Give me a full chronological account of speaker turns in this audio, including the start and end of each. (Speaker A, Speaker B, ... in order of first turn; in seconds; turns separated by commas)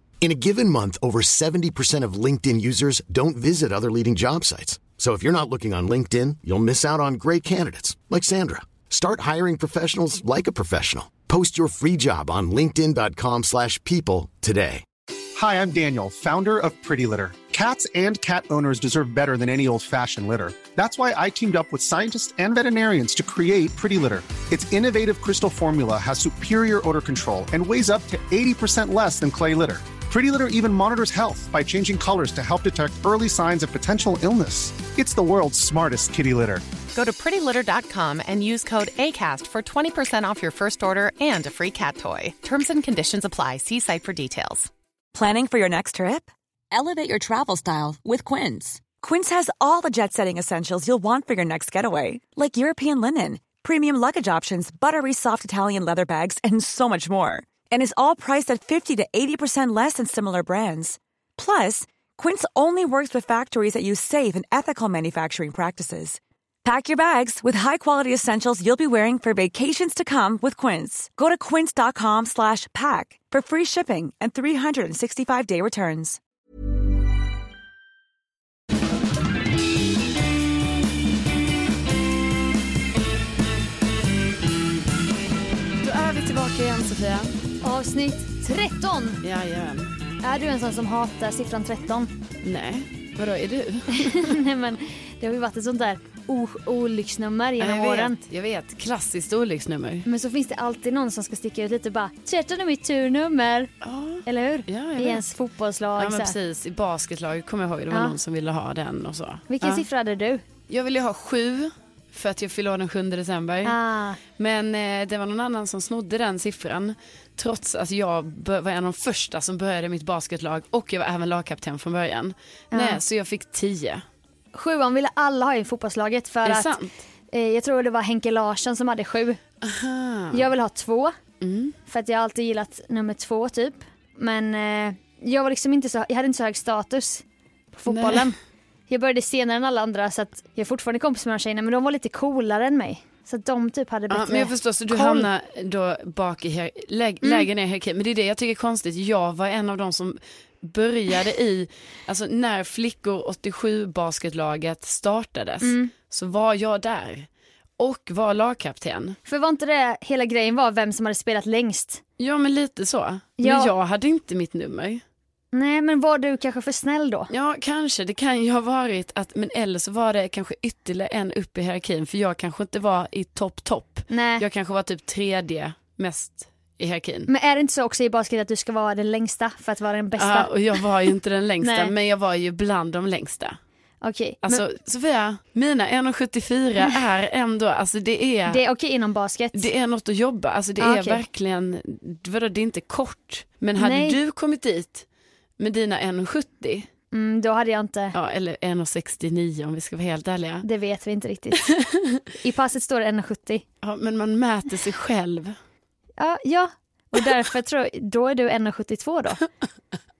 Speaker A: 0.2-14.8, Speaker B: 15.3-36.6, Speaker C: 36.9-44.7, Speaker D: 45.1-76.2, Speaker E: 85.8-87.4, Speaker F: 87.6-89.2, Speaker E: 89.2-89.9, Speaker F: 90.2-92.1, Speaker E: 92.4-94.3, Speaker F: 93.9-98.2, Speaker E: 97.6-100.0, Speaker F: 100.0-103.7, Speaker E: 103.8-105.2, Speaker F: 104.2-106.3, Speaker E: 106.0-109.8, Speaker F: 107.9-108.2, Speaker F: 109.5-110.4, Speaker E: 110.7-113.8, Speaker F: 113.6-114.2, Speaker E: 114.4-124.0, Speaker F: 122.7-123.0, Speaker F: 124.5-126.7, Speaker E: 126.4-126.9, Speaker F: 127.3-129.4, Speaker E: 129.6-130.5, Speaker F: 130.3-131.2, Speaker E: 131.4-131.7, Speaker F: 131.9-138.4, Speaker E: 137.9-138.2, Speaker F: 138.9-145.3, Speaker E: 144.1-159.2, Speaker F: 147.2-147.5, Speaker F: 155.6-155.9, Speaker F: 159.2-162.0, Speaker E: 162.2-165.0, Speaker F: 163.4-163.7, Speaker F: 165.5-167.3, Speaker E: 167.3-177.3, Speaker F: 174.1-174.4, Speaker F: 177.3-180.5, Speaker E: 180.2-183.6, Speaker F: 181.6-181.9, Speaker F: 184.0-184.6, Speaker E: 184.4-188.6, Speaker F: 188.5-189.7, Speaker E: 189.5-195.0, Speaker F: 190.8-191.2, Speaker F: 193.8-194.2, Speaker E: 195.6-196.9, Speaker F: 197.1-198.1, Speaker E: 198.1-200.7, Speaker F: 200.6-201.7, Speaker E: 201.8-202.2, Speaker F: 202.4-203.6, Speaker E: 203.8-205.5, Speaker F: 206.2-209.4